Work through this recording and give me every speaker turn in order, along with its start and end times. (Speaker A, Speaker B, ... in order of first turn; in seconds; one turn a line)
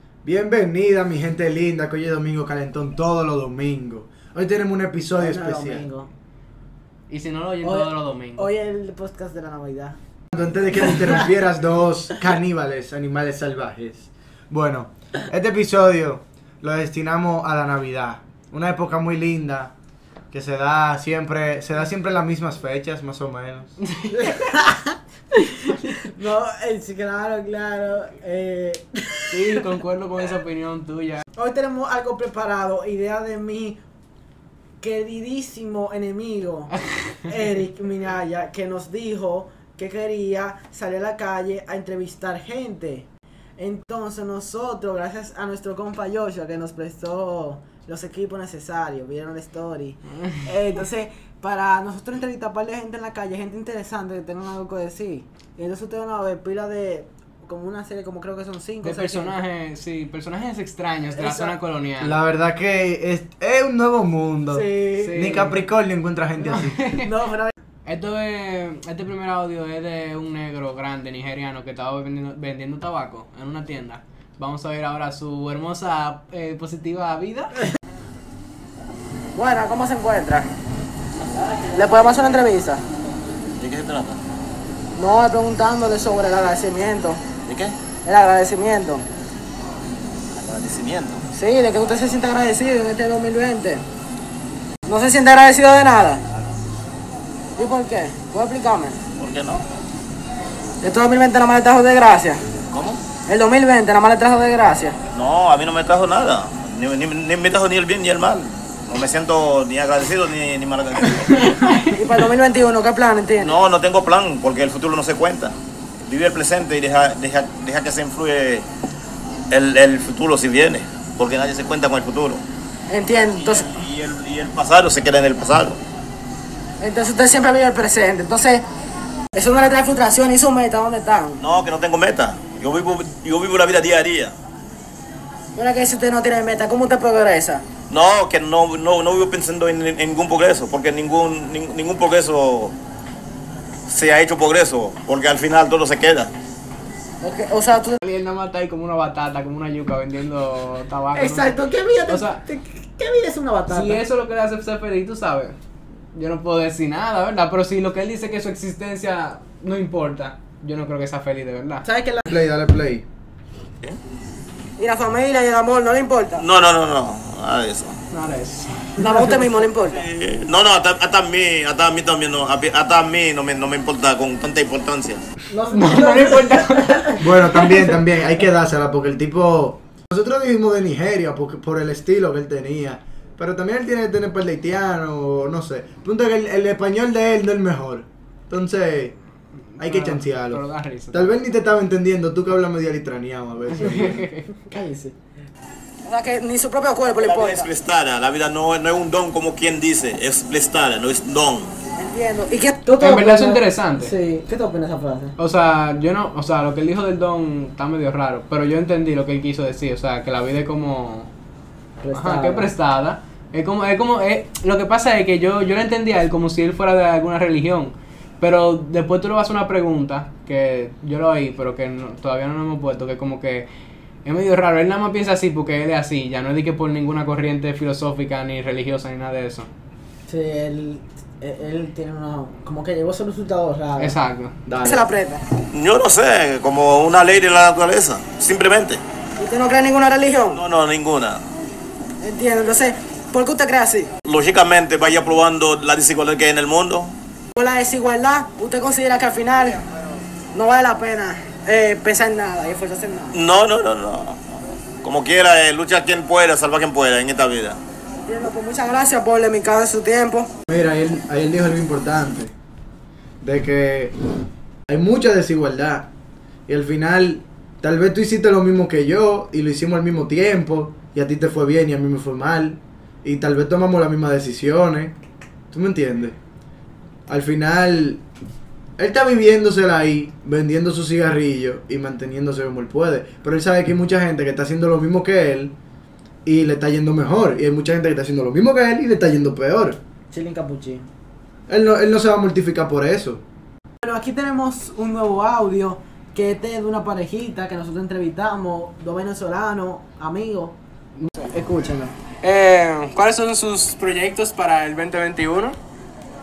Speaker A: 0.2-5.9
Speaker B: 5.2-6.1
Speaker C: 7.1-8.5
Speaker B: 7.6-10.0
Speaker A: 10.3-19.7
Speaker B: 10.7-11.2
Speaker A: 20.3-23.8
Speaker B: 24.1-25.0
Speaker C: 25.4-25.7
Speaker B: 26.0-29.6
Speaker C: 29.3-31.2
Speaker B: 31.4-33.8
Speaker B: 34.8-36.7
Speaker B: 37.2-43.1
Speaker B: 43.6-59.4
Speaker C: 58.8-62.2
Speaker B: 61.1-61.5
Speaker A: 62.0-66.8
Speaker B: 64.5-65.3
Speaker C: 65.0-65.6
Speaker C: 66.8-67.1
Speaker B: 67.0-67.5
Speaker C: 67.9-77.7
Speaker B: 79.3-80.5
Speaker B: 81.7-82.8
Speaker D: 83.6-84.2
Speaker B: 85.0-87.2
Speaker D: 87.5-87.8
Speaker B: 88.0-89.1
Speaker D: 90.4-91.2
Speaker B: 91.3-93.8
Speaker B: 94.9-96.2
Speaker B: 97.6-99.0
Speaker D: 99.2-99.6
Speaker B: 100.8-102.4
Speaker D: 102.7-103.0
Speaker B: 103.3-105.0
Speaker D: 105.1-111.5
Speaker C: 111.2-111.9
Speaker B: 111.8-113.5
Speaker D: 113.4-115.5
Speaker D: 116.0-118.7
Speaker D: 119.5-122.4
Speaker B: 122.9-123.8
Speaker D: 123.3-125.8
Speaker B: 126.8-128.6
Speaker B: 129.3-131.4
Speaker D: 131.4-134.3
Speaker B: 135.6-137.7
Speaker D: 137.9-142.8
Speaker D: 143.9-146.3
Speaker B: 147.2-148.0
Speaker C: 148.0-152.4
Speaker B: 151.1-154.0
Speaker C: 153.7-155.6
Speaker C: 156.1-161.8
Speaker B: 161.8-162.2
Speaker A: 162.3-163.1
Speaker B: 164.8-166.4
Speaker D: 166.4-168.0
Speaker C: 168.1-169.4
Speaker B: 169.0-170.0
Speaker D: 169.9-175.2
Speaker B: 175.5-177.2
Speaker C: 175.7-177.7
Speaker A: 177.2-189.2
Speaker C: 189.8-191.4
Speaker A: 189.8-194.3
Speaker C: 193.8-194.5
Speaker B: 193.8-194.1
Speaker B: 194.6-195.2
Speaker B: 196.1-197.7
Speaker D: 197.1-201.8
Speaker B: 202.0-205.3
Speaker C: 203.0-204.2
Speaker C: 205.4-211.3
Speaker B: 212.0-212.7
Speaker C: 212.1-223.7
Speaker C: 224.2-229.7
Speaker B: 230.3-234.2
Speaker C: 234.0-234.6
Speaker A: 234.7-235.1
Speaker B: 234.8-235.4
Speaker D: 235.7-239.0
Speaker B: 239.4-240.6
Speaker D: 240.5-241.4
Speaker B: 242.2-244.1
Speaker D: 244.2-247.2
Speaker B: 247.6-249.9
Speaker B: 250.5-253.4
Speaker D: 253.3-254.4
Speaker D: 255.0-257.8
Speaker B: 258.3-260.5
Speaker A: 260.7-262.5
Speaker A: 263.4-264.1
Speaker A: 264.9-266.1
Speaker A: 266.7-275.1
Speaker A: 275.7-276.4
Speaker A: 277.3-278.2
Speaker A: 279.0-285.8
Speaker A: 286.4-290.0
Speaker B: 290.3-291.1
Speaker A: 291.7-293.4
Speaker B: 294.0-300.8
Speaker C: 301.2-301.6
Speaker B: 301.5-302.2
Speaker C: 302.4-305.8